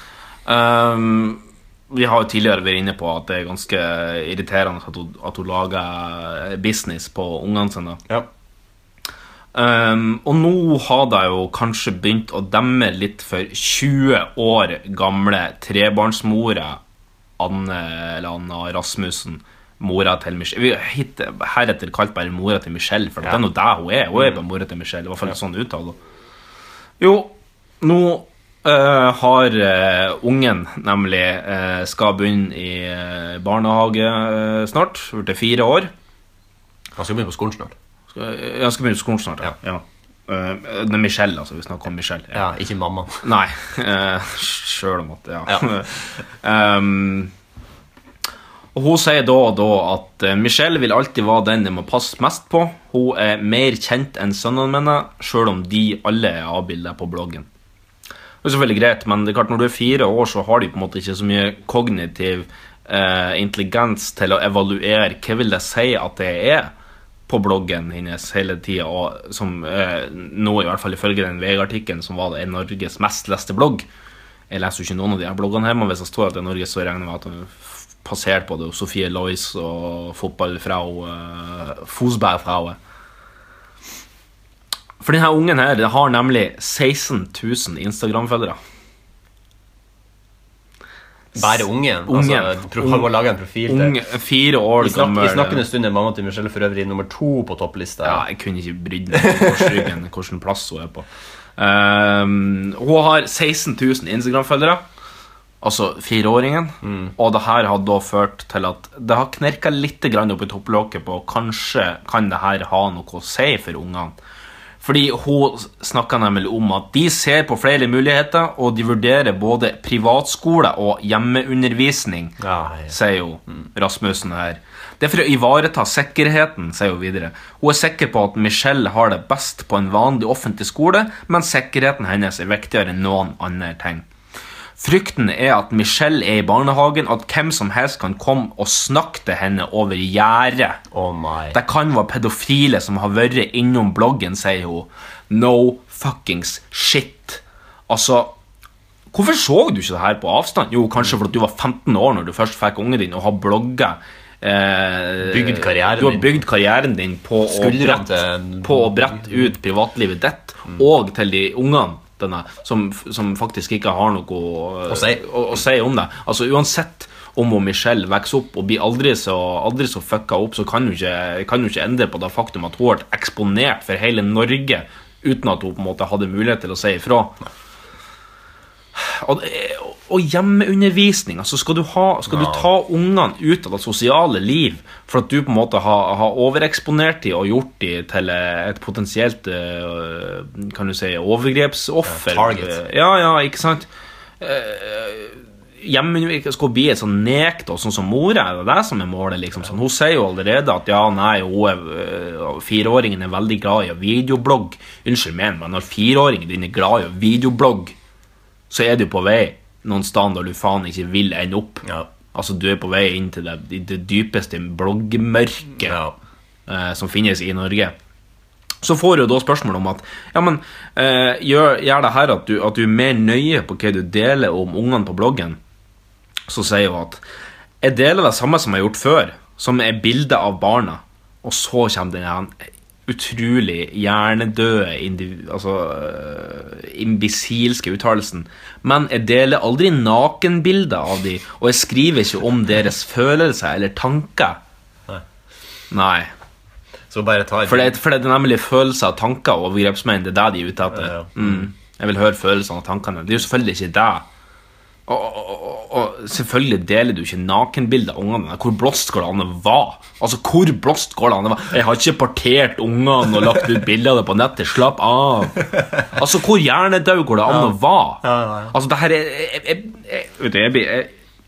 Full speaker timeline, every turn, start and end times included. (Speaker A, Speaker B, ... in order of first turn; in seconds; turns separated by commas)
Speaker A: 0.5-8.0, Speaker A: 9.5-16.8, Speaker A: 17.4-26.0, Speaker A: 27.0-35.9, Speaker B: 37.0-37.7, Speaker A: 38.1-42.4, Speaker B: 42.3-43.2, Speaker A: 43.2-47.3, Speaker A: 48.7-57.5, Speaker A: 58.4-66.7, Speaker A: 67.3-73.9, Speaker A: 74.5-82.8, Speaker A: 85.0-88.6, Speaker B: 91.3-94.0, Speaker A: 92.1-93.1, Speaker A: 93.7-95.7, Speaker B: 94.8-98.2, Speaker A: 98.0-104.8, Speaker B: 99.1-99.8, Speaker A: 105.6-114.2, Speaker B: 106.8-107.1, Speaker A: 114.8-134.1, Speaker B: 122.4-123.0, Speaker A: 134.8-140.8, Speaker B: 140.9-141.6, Speaker A: 141.5-148.3, Speaker A: 149.1-158.1, Speaker B: 155.2-156.4, Speaker B: 157.5-159.5, Speaker A: 158.6-177.4, Speaker B: 164.9-165.2, Speaker A: 179.0-193.9, Speaker B: 182.3-182.7, Speaker B: 192.1-192.8, Speaker A: 194.4-208.0, Speaker A: 208.7-216.0, Speaker B: 215.8-216.2, Speaker A: 216.7-217.9, Speaker A: 218.8-225.6, Speaker A: 226.5-227.2, Speaker A: 227.8-244.6, Speaker A: 245.9-246.3, Speaker B: 247.1-248.0, Speaker A: 247.7-254.3, Speaker B: 250.9-251.7, Speaker A: 255.1-271.1, Speaker B: 267.5-268.8